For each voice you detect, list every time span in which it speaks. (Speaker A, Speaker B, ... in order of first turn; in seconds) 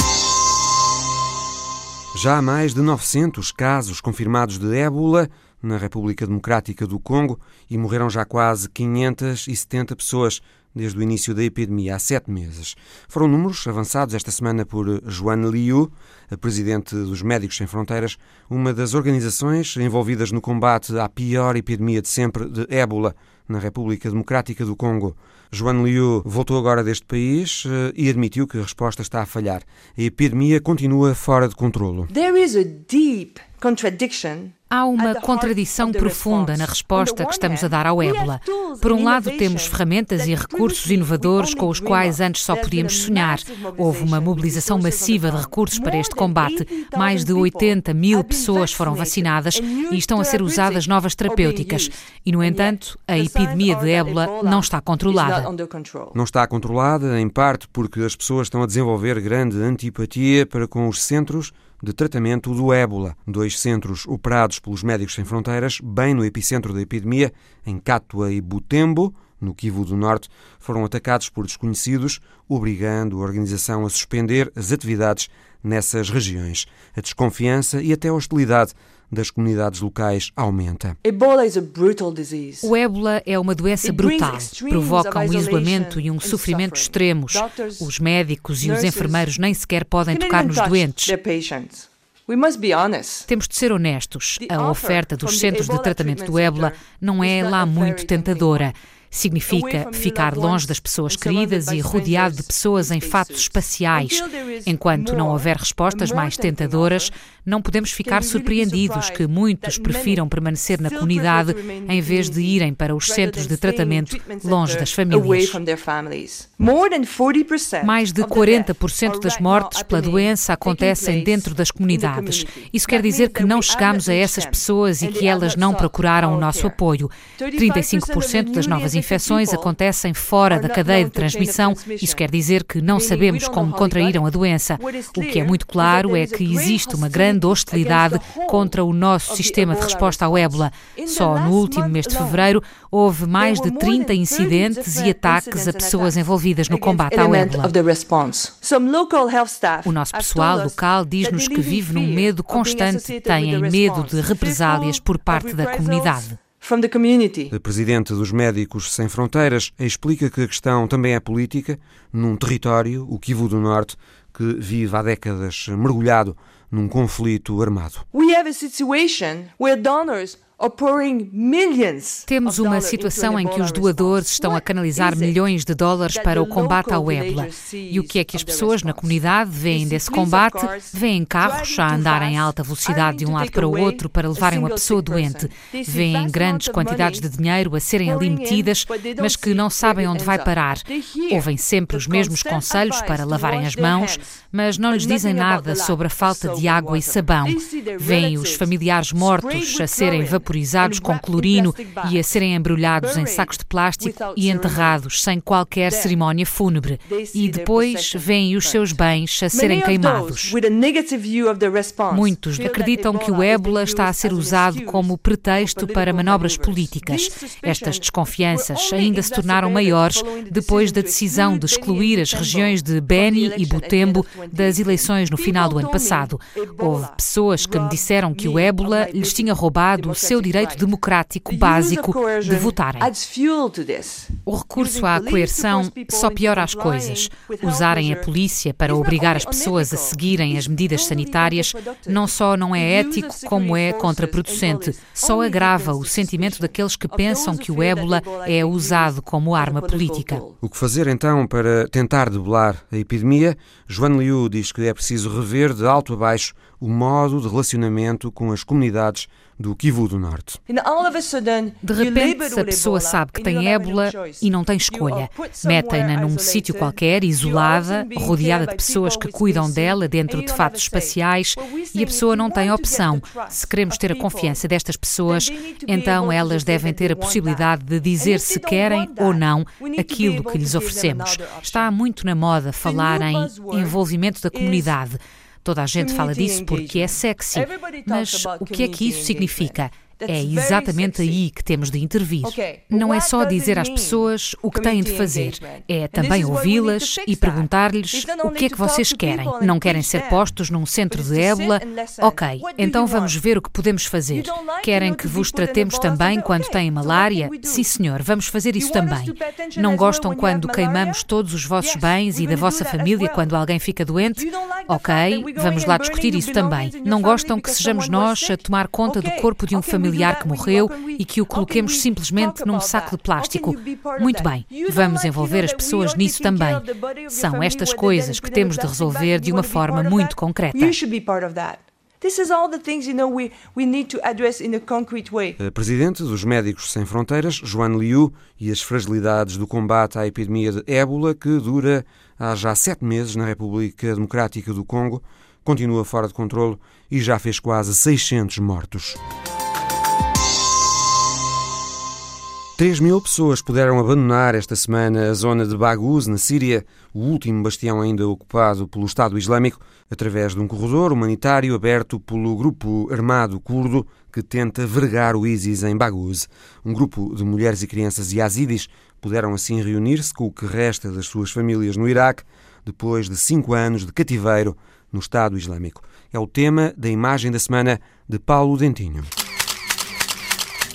Speaker A: 2.1-32.1, 56.1-81.0, 157.5-168.0, 250.6-260.6, 335.6-349.2, 352.8-379.3
Speaker B: 32.1-56.2, 81.0-82.7, 83.8-87.9, 88.6-89.3, 90.1-93.3, 94.4-98.7, 99.5-107.1, 108.0-126.8, 127.3-129.8, 130.4-132.2, 132.9-142.5, 143.4-157.5, 168.1-175.4, 176.1-187.3, 188.0-202.4, 203.0-205.0, 205.8-206.2, 207.0-230.9, 231.4-250.6, 260.7-274.6, 275.2-282.0, 282.8-285.0, 285.9-291.4, 292.4-300.5, 301.1-303.4, 304.3-308.0, 308.8-313.5, 314.3-335.6
Speaker C: 34.7-55.5, 82.6-91.2, 93.3-115.6, 117.8-147.7, 149.8-156.4, 172.3-210.6, 212.1-233.1, 234.4-250.4, 261.8-330.9